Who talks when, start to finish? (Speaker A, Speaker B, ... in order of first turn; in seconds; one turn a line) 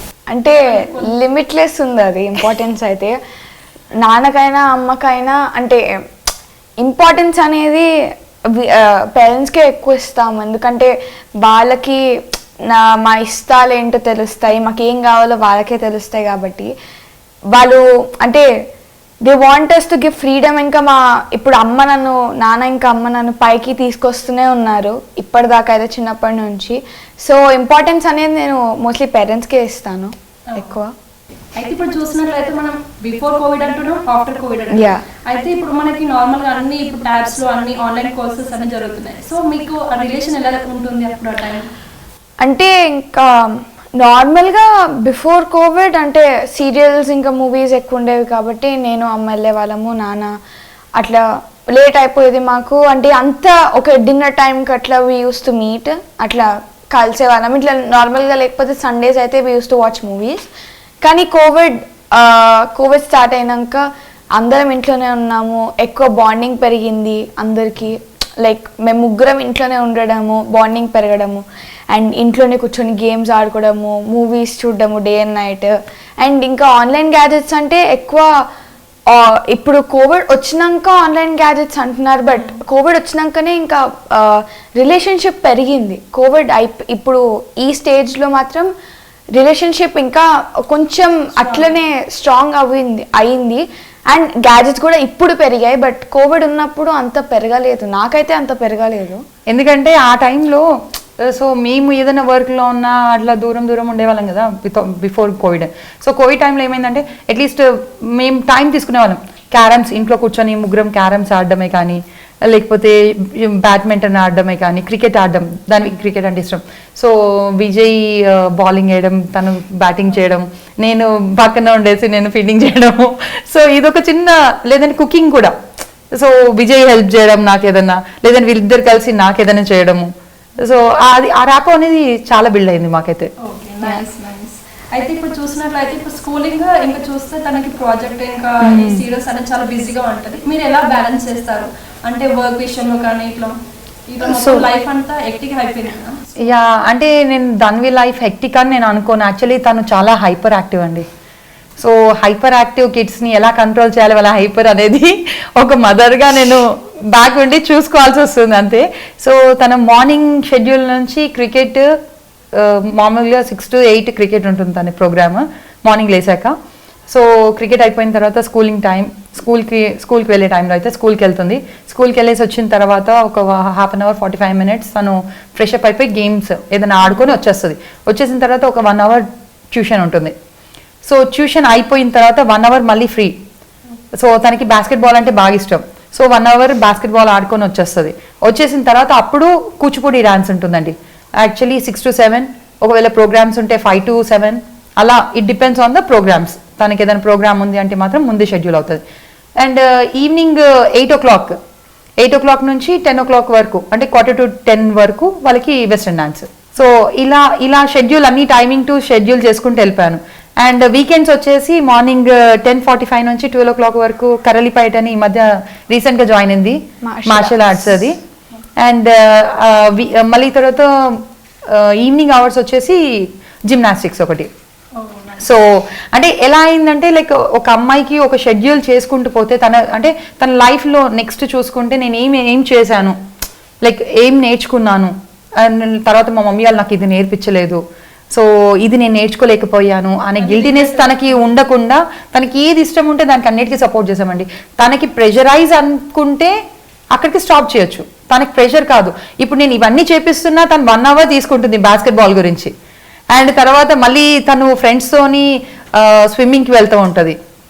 Speaker A: 0.3-3.1
Speaker B: 0.7-1.1
Speaker A: 4.0-5.8
Speaker A: 6.8-7.9
Speaker A: 8.6-10.9
Speaker A: 11.4-12.0
Speaker A: 12.7-16.7
Speaker A: 17.5-18.5
Speaker A: 19.3-30.9
Speaker B: 31.6-41.7
Speaker A: 34.7-35.0
Speaker A: 42.4-43.5
Speaker A: 44.0-50.3
Speaker A: 51.0-51.2
Speaker A: 51.7-60.5
Speaker A: 61.0-63.8
Speaker A: 64.4-78.3
Speaker A: 79.1-88.7
Speaker A: 89.4-99.2
Speaker B: 91.3-91.8
Speaker C: 99.5-100.6
Speaker C: 101.2-125.5
Speaker C: 126.1-130.1
Speaker C: 130.6-133.3
Speaker B: 133.4-143.5
Speaker C: 138.6-139.0
Speaker B: 144.1-146.2
Speaker C: 144.3-144.6
Speaker C: 146.4-151.1
Speaker C: 151.8-161.9
Speaker C: 162.5-166.5
Speaker C: 167.1-180.3
Speaker C: 181.1-183.3
Speaker C: 184.2-199.0
Speaker C: 199.6-201.6
Speaker C: 202.2-218.2
Speaker A: 217.0-218.0
Speaker C: 218.8-223.0
Speaker C: 223.7-224.5
Speaker B: 225.0-225.5
Speaker C: 225.4-233.1
Speaker C: 233.8-237.8
Speaker C: 238.3-246.5
Speaker B: 240.4-241.4
Speaker C: 247.1-252.7
Speaker C: 253.3-257.4